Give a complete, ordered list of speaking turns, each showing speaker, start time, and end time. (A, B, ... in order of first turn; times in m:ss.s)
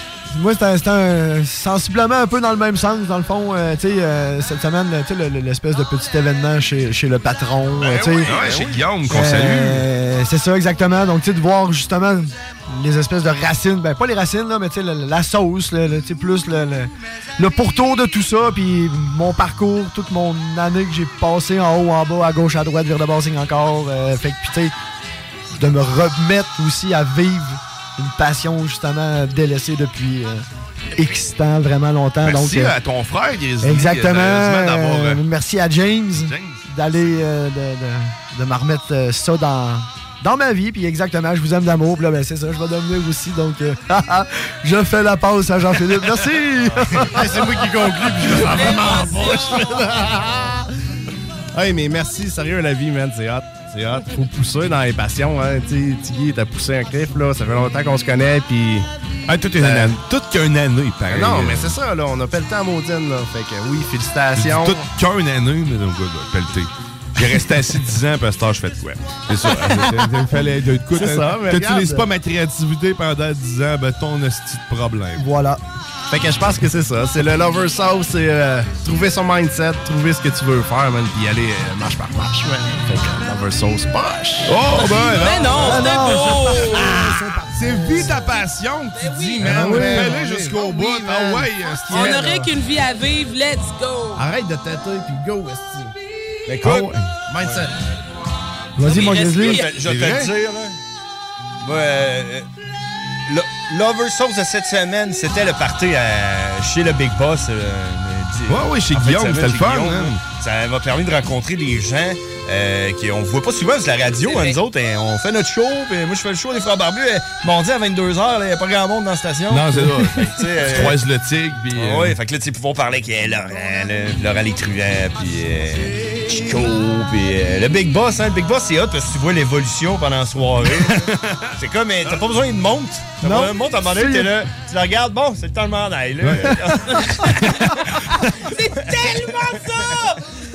0:00.3-0:08.4 A
0:07.8-0:08.8 B
0:08.2-0:09.8 C
0:09.1-0:24.7 A
0:25.5-0:30.4 A
0:31.0-0:32.8 A
0:32.2-0:35.2 C
0:33.6-0:47.5 A
0:36.2-0:37.3 C
0:47.1-0:50.6 D
0:48.6-0:49.6 E
0:51.5-0:58.9 D
0:59.3-1:01.8 C
0:59.6-1:00.0 D
1:01.1-1:04.8 D
1:04.4-1:15.2 C
1:10.9-1:12.1 D
1:15.2-1:15.6 A
1:16.1-1:24.6 D
1:24.4-1:32.2 C
1:24.7-1:27.0 E
1:25.5-1:28.3 A
1:29.0-1:29.5 E
1:29.4-1:32.5 D
1:29.5-1:30.1 A
1:31.9-1:34.3 E
1:34.2-1:35.9 D
1:36.5-1:36.9 B
1:36.6-1:37.1 C
1:37.3-1:37.7 D
1:38.8-1:39.6 A
1:38.8-1:39.7 E
1:38.9-1:40.8 B
1:41.6-1:42.5 B
1:43.3-2:01.0 B
1:48.5-1:50.2 C
1:54.2-1:54.6 E
1:59.5-2:02.2 C
2:01.7-2:17.4 B
2:10.8-2:11.4 C
2:13.2-2:14.4 A
2:16.2-2:16.6 C
2:18.4-2:20.2 E
2:18.9-2:19.9 B